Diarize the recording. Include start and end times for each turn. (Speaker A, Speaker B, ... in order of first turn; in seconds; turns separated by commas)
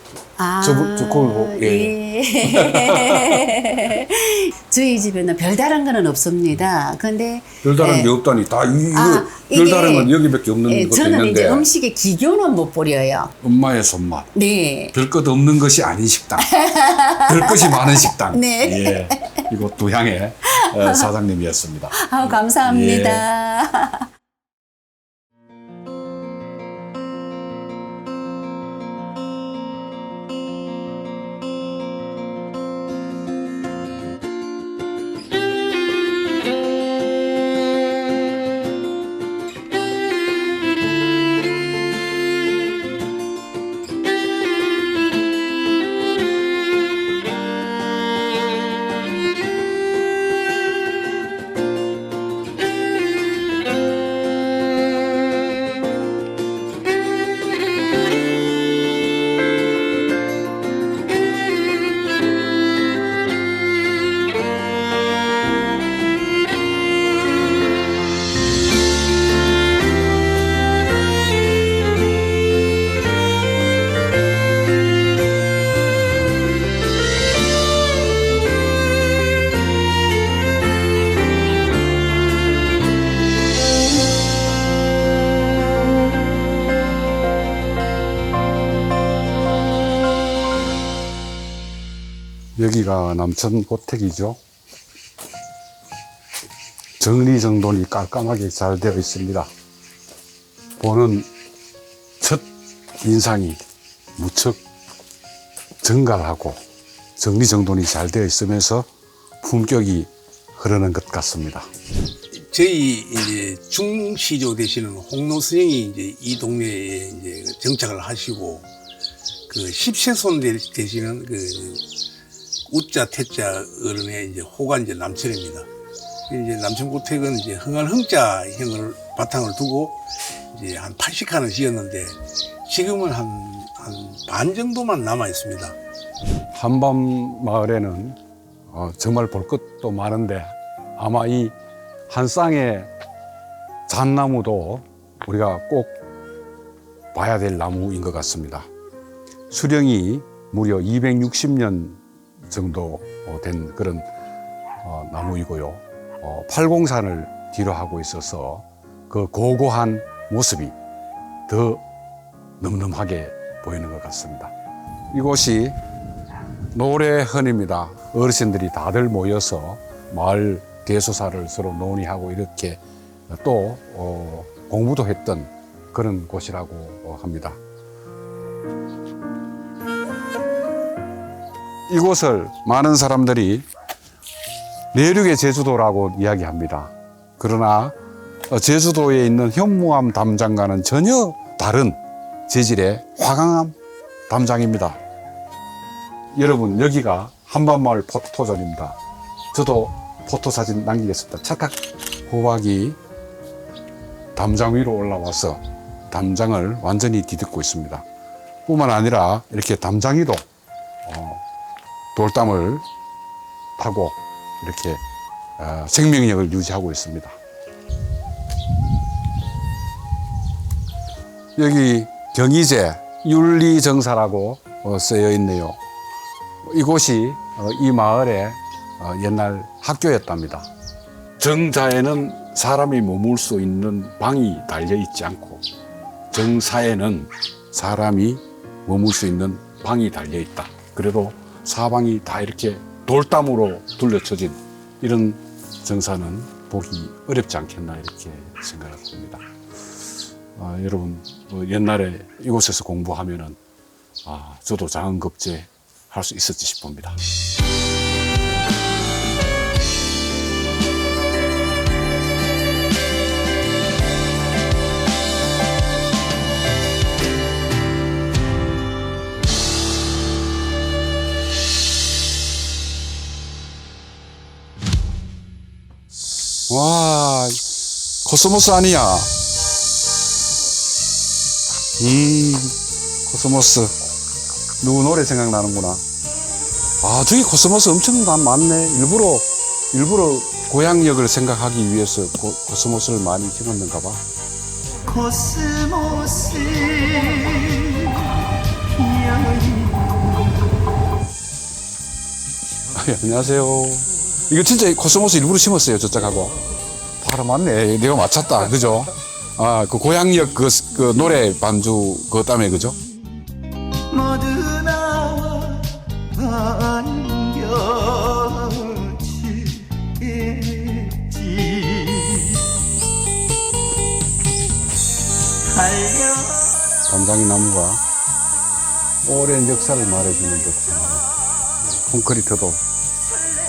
Speaker A: 0.4-8.1, Speaker B: 0.6-3.5, Speaker B: 7.6-11.7, Speaker A: 8.9-10.1, Speaker A: 10.7-13.3, Speaker B: 13.4-14.3, Speaker A: 14.3-14.9, Speaker B: 14.9-16.5, Speaker A: 16.4-19.4, Speaker B: 17.2-23.2, Speaker A: 20.5-21.1, Speaker A: 21.9-24.1, Speaker B: 92.6-94.4, Speaker B: 97.0-99.5, Speaker B: 100.8-101.3, Speaker B: 102.2-102.4, Speaker B: 103.0-103.6, Speaker B: 104.2-104.6, Speaker B: 105.8-106.6, Speaker B: 107.2-108.9, Speaker B: 109.4-111.7, Speaker C: 112.3-118.7, Speaker C: 119.5-121.8, Speaker C: 122.7-125.7, Speaker C: 126.3-129.9, Speaker C: 130.5-135.8, Speaker B: 136.5-138.2, Speaker B: 138.7-141.5, Speaker B: 142.1-142.9, Speaker B: 143.9-145.9, Speaker B: 147.1-148.7, Speaker B: 149.5-154.1, Speaker B: 154.8-160.8, Speaker B: 161.5-161.8, Speaker B: 162.6-164.5, Speaker B: 165.1-165.8, Speaker B: 166.7-177.6, Speaker B: 181.9-183.7, Speaker B: 184.9-187.9, Speaker B: 188.5-193.8, Speaker B: 194.3-195.0, Speaker B: 196.3-199.0, Speaker B: 199.5-203.0, Speaker B: 204.3-208.0, Speaker B: 208.7-210.4, Speaker B: 211.1-211.4, Speaker B: 212.1-212.8, Speaker B: 213.8-215.0, Speaker B: 215.6-217.4, Speaker B: 221.6-225.8, Speaker B: 226.6-230.7, Speaker B: 231.4-235.6, Speaker B: 236.3-249.4, Speaker B: 250.5-253.6, Speaker B: 254.2-257.2, Speaker B: 276.7-279.3, Speaker B: 282.0-283.9, Speaker B: 284.8-286.0, Speaker B: 287.0-294.2, Speaker D: 295.1-298.2, Speaker D: 299.0-300.1, Speaker B: 302.9-306.6, Speaker B: 307.2-313.0, Speaker D: 314.1-315.8, Speaker D: 316.4-319.7, Speaker D: 320.2-322.4, Speaker D: 325.8-326.3, Speaker B: 327.1-328.0, Speaker B: 329.2-331.3, Speaker B: 331.8-332.8